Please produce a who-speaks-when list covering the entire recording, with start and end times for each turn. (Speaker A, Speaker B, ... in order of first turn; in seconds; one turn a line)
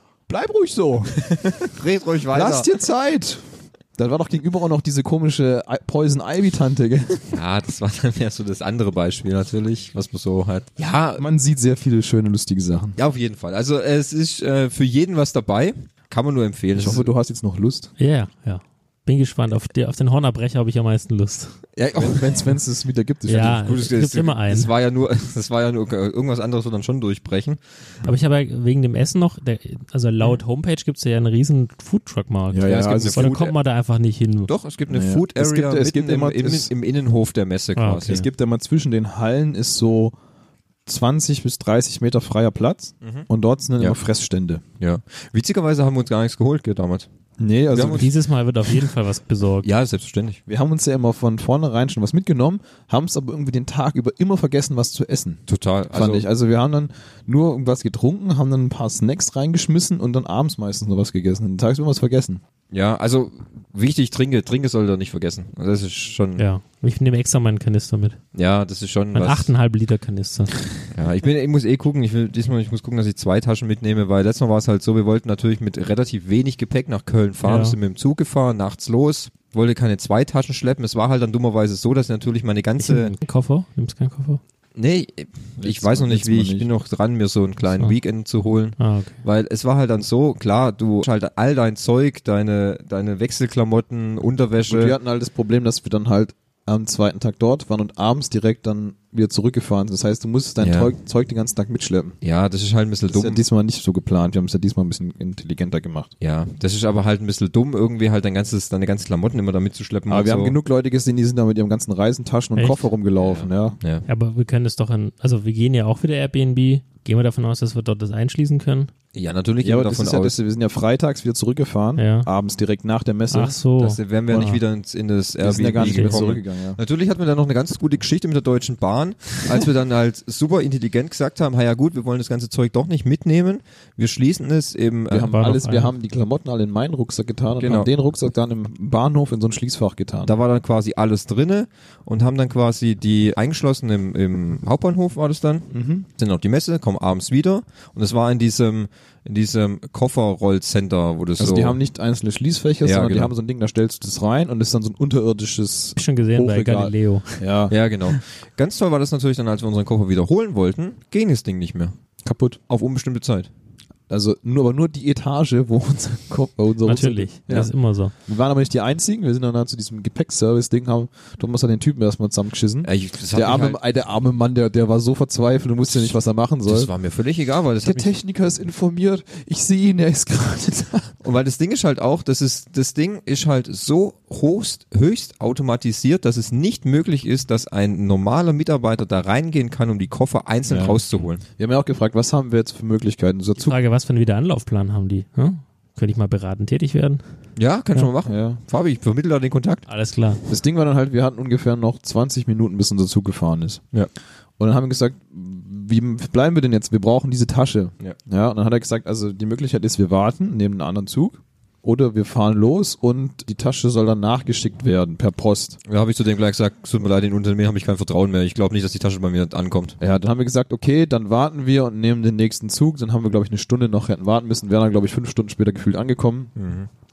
Speaker A: 0.3-1.7
Speaker B: 1.6-2.7
Speaker A: 2.3-7.4
Speaker B: 7.3-11.2
Speaker A: 11.2-13.0
Speaker B: 12.9-17.1
Speaker A: 16.7-17.9
Speaker C: 18.0-21.6
Speaker B: 21.8-22.4
Speaker A: 21.9-23.7
Speaker C: 23.3-24.7
Speaker B: 23.6-27.6
Speaker C: 28.0-34.5
Speaker A: 32.5-33.3
Speaker B: 32.6-33.5
Speaker B: 34.5-38.2
Speaker A: 34.9-36.7
Speaker C: 37.8-38.2
Speaker A: 38.0-40.1
Speaker A: 40.9-44.6
Speaker B: 43.0-43.3
Speaker B: 44.8-47.1
Speaker A: 47.4-48.1
Speaker B: 47.7-48.1
Speaker C: 47.9-49.7
Speaker B: 49.6-50.4
Speaker A: 50.5-55.4
Speaker B: 55.5-56.2
Speaker A: 55.9-62.4
Speaker B: 62.7-66.4
Speaker C: 66.4-68.2
Speaker B: 68.3-69.5
Speaker C: 69.1-70.6
Speaker B: 70.9-83.1
Speaker C: 77.4-77.8
Speaker C: 82.8-84.4
Speaker B: 84.8-94.9
Speaker A: 85.6-86.7
Speaker C: 88.8-89.2
Speaker A: 94.7-102.2
Speaker B: 100.6-100.9
Speaker B: 102.2-103.4
Speaker A: 103.1-106.1
Speaker B: 106.2-110.5
Speaker A: 110.1-113.8
Speaker C: 112.5-112.9
Speaker B: 113.2-114.0
Speaker C: 114.1-118.9
Speaker B: 119.1-120.4
Speaker A: 119.6-123.6
Speaker C: 122.0-122.3
Speaker C: 123.3-124.5
Speaker B: 123.8-135.3
Speaker A: 124.3-124.6
Speaker A: 125.4-126.8
Speaker C: 125.8-126.2
Speaker A: 135.1-140.3
Speaker C: 135.3-135.9
Speaker B: 137.6-137.9
Speaker B: 140.2-151.8
Speaker A: 145.7-146.1
Speaker A: 151.4-157.7
Speaker B: 152.8-153.3
Speaker C: 156.0-157.5
Speaker B: 157.7-161.9
Speaker A: 162.2-162.6
Speaker B: 162.7-163.5
Speaker A: 164.1-167.7
Speaker C: 166.8-168.1
Speaker A: 168.2-176.9
Speaker B: 172.8-173.8
Speaker B: 176.7-178.1
Speaker A: 177.8-181.1
Speaker B: 181.2-191.4
Speaker A: 190.7-191.0
Speaker A: 191.6-193.8
Speaker C: 193.6-197.2
Speaker B: 197.6-199.8
Speaker A: 198.2-198.6
Speaker C: 199.9-200.4
Speaker A: 200.5-203.8
Speaker A: 204.6-215.8
Speaker B: 215.8-220.0
Speaker A: 220.0-226.5
Speaker B: 226.6-226.9